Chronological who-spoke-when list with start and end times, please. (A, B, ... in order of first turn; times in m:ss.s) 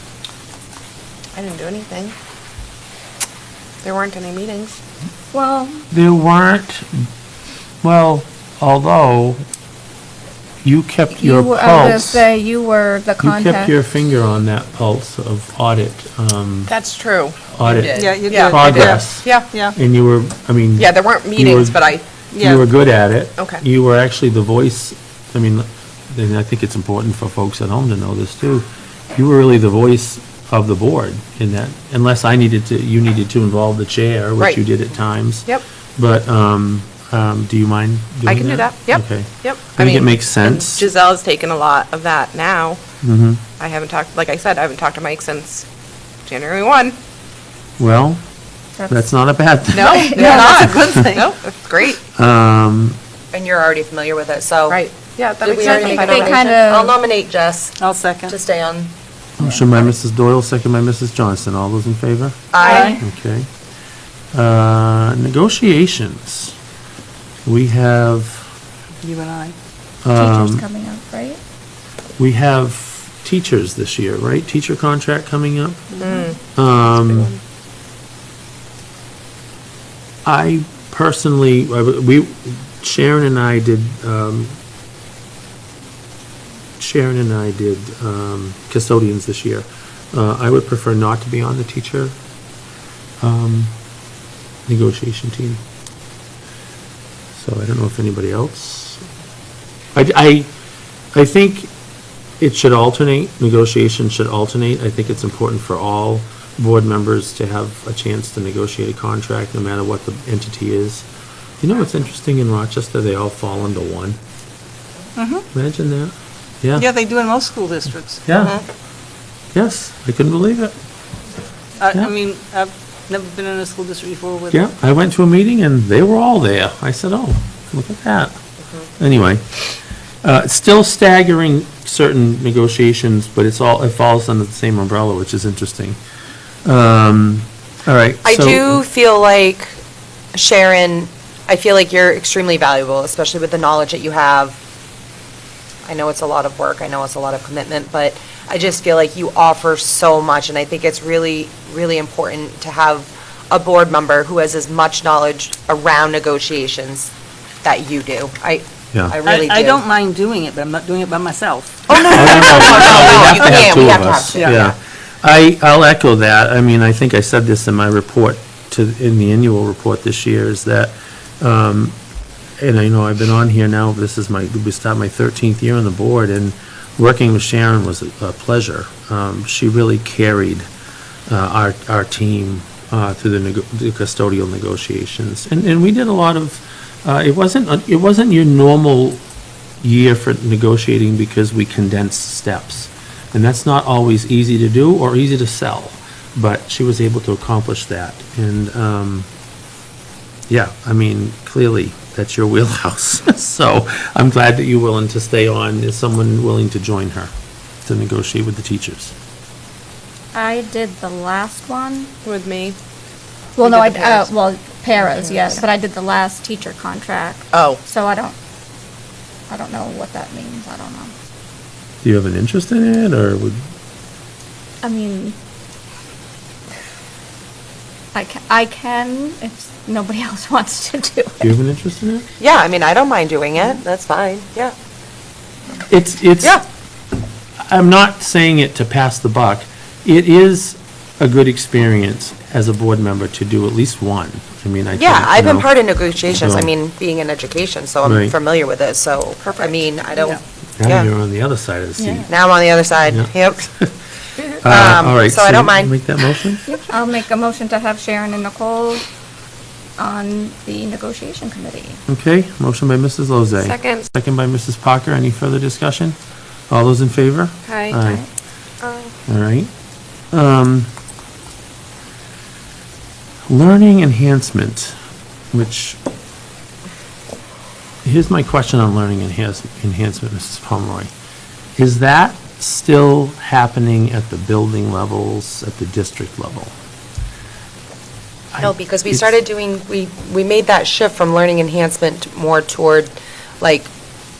0:01.3-0:02.1 A
0:03.8-0:04.8 A
0:05.3-0:05.8 B
0:05.9-0:07.1 C
0:07.8-0:09.4 C
0:10.6-0:12.2 C
0:11.1-0:13.7 B
0:13.2-0:16.7 C
0:16.7-0:19.5 A
0:17.5-0:21.8 C
0:17.9-0:19.7 D
0:20.8-0:22.0 A
0:22.3-0:22.6 D
0:22.3-0:40.9 C
0:38.2-0:42.8 A
0:43.0-0:43.4 C
0:43.6-0:45.6 A
0:46.2-0:47.0 A
0:47.8-0:48.2 C
0:48.8-0:49.1 B
0:48.9-0:51.0 C
0:49.7-0:52.0 A
0:49.8-0:50.7 B
0:50.3-0:51.3 D
0:52.1-0:53.0 C
0:53.3-0:54.8 E
0:54.7-0:56.6 A
0:55.4-0:58.9 E
0:55.6-0:56.9 B
0:57.8-0:58.3 D
0:59.4-1:03.5 C
0:59.4-0:59.9 B
1:02.5-1:03.0 E
1:02.6-1:03.0 B
1:02.7-1:03.0 D
1:04.3-1:06.6 C
1:07.4-1:08.4 C
1:09.0-1:09.6 D
1:10.0-1:10.6 C
1:10.1-1:11.4 B
1:12.2-1:15.8 C
1:16.0-1:17.3 A
1:16.5-1:17.3 C
1:20.2-1:24.6 C
1:26.8-1:32.2 C
1:33.2-1:33.7 C
1:34.7-1:35.6 C
1:37.4-1:39.0 C
1:39.9-1:40.5 C
1:41.1-1:41.7 C
1:42.4-1:51.0 C
1:51.6-1:54.2 C
1:55.2-1:55.4 D
1:55.5-1:56.9 C
1:56.7-1:58.2 D
1:58.2-1:58.6 C
1:59.5-2:00.7 C
2:01.8-2:04.6 D
2:04.5-2:08.4 C
2:09.0-2:09.4 C
2:10.2-2:16.0 C
2:16.6-2:18.8 C
2:18.2-2:19.8 E
2:20.3-2:24.6 E
2:25.8-2:37.1 E
2:37.6-2:39.8 E
2:39.2-2:44.7 D
2:41.9-2:44.7 E
2:42.1-2:52.0 C
2:52.6-3:00.7 C
3:01.3-3:09.2 C
3:09.8-3:19.3 C
3:20.5-3:27.3 C
3:27.8-3:29.1 C
3:30.3-3:32.1 B
3:32.2-3:32.8 A
3:33.6-3:38.3 B
3:33.6-3:34.3 A
3:35.0-3:35.6 A
3:37.5-3:37.8 A
3:39.5-3:41.1 B
3:42.0-3:43.6 C
3:44.8-3:45.4 B
3:48.1-3:51.5 B
3:51.4-3:52.3 C
3:52.4-3:54.7 E
3:55.9-3:56.6 C
3:57.7-4:05.7 C
4:04.9-4:11.1 E
4:06.4-4:06.7 C
4:08.0-4:08.3 C
4:10.8-4:12.3 C
4:12.2-4:13.7 E
4:13.1-4:13.9 C
4:14.6-4:16.7 C
4:14.6-4:16.0 E
4:16.7-4:19.0 B
4:20.0-4:22.0 B
4:22.1-4:26.2 C
4:23.6-4:24.0 A
4:26.7-4:28.2 C
4:27.6-4:28.0 A
4:28.8-4:29.1 A
4:29.3-4:29.7 C
4:30.3-4:30.9 C
4:33.5-4:35.0 C
4:35.5-4:36.0 C
4:38.0-4:41.1 C
4:41.8-4:46.7 C
4:48.5-4:49.3 C
4:48.6-4:53.9 E